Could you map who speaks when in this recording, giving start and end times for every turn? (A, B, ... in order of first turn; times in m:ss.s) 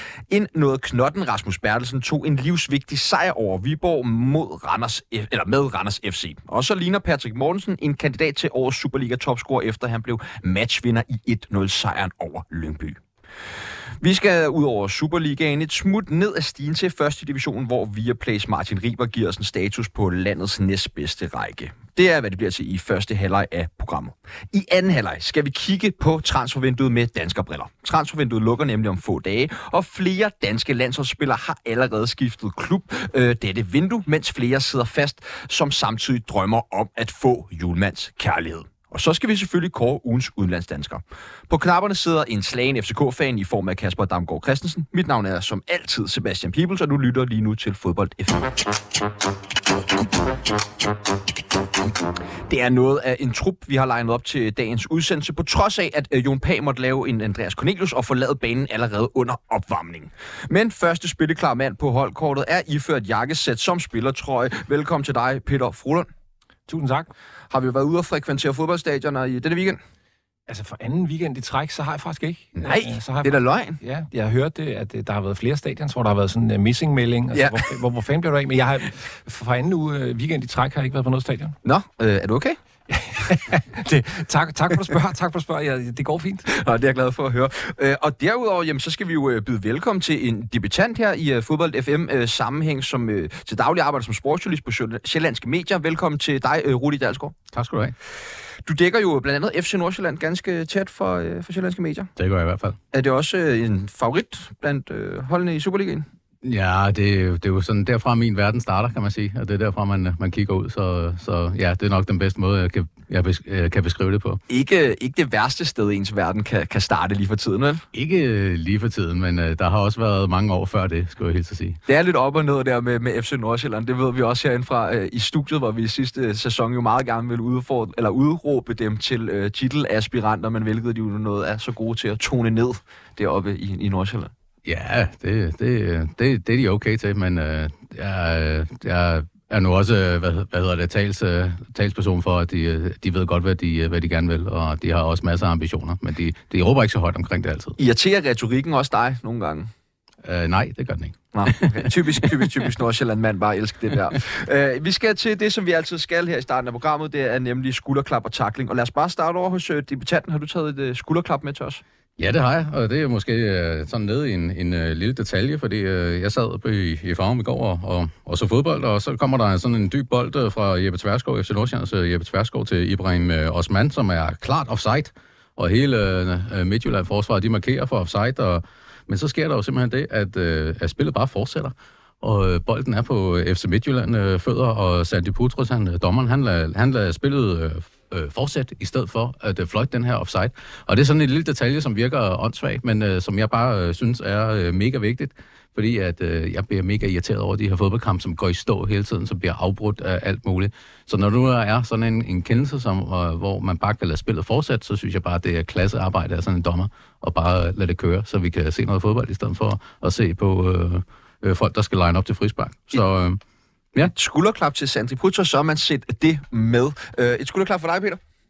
0:00.3-0:13.0 A
0:14.0-0:48.5 A
0:52.5-1:06.1 A
1:06.7-1:07.1 B
1:07.5-1:09.8 A
1:10.5-1:21.6 B
1:12.6-1:13.8 A
1:17.3-1:17.6 A
1:21.6-1:22.6 A
1:22.9-1:26.5 B
1:26.5-1:37.3 A
1:37.5-1:37.9 C
1:38.6-1:42.1 A
1:42.2-1:42.8 C
1:42.9-1:46.1 A
1:46.4-1:54.4 C
1:54.5-1:57.8 A
1:57.9-2:01.8 C
2:01.9-2:14.3 A
2:14.6-2:27.8 C
2:27.8-2:29.7 A
2:30.2-2:32.4 C
2:31.3-2:41.8 A
2:42.2-3:33.4 C
3:34.0-3:38.2 A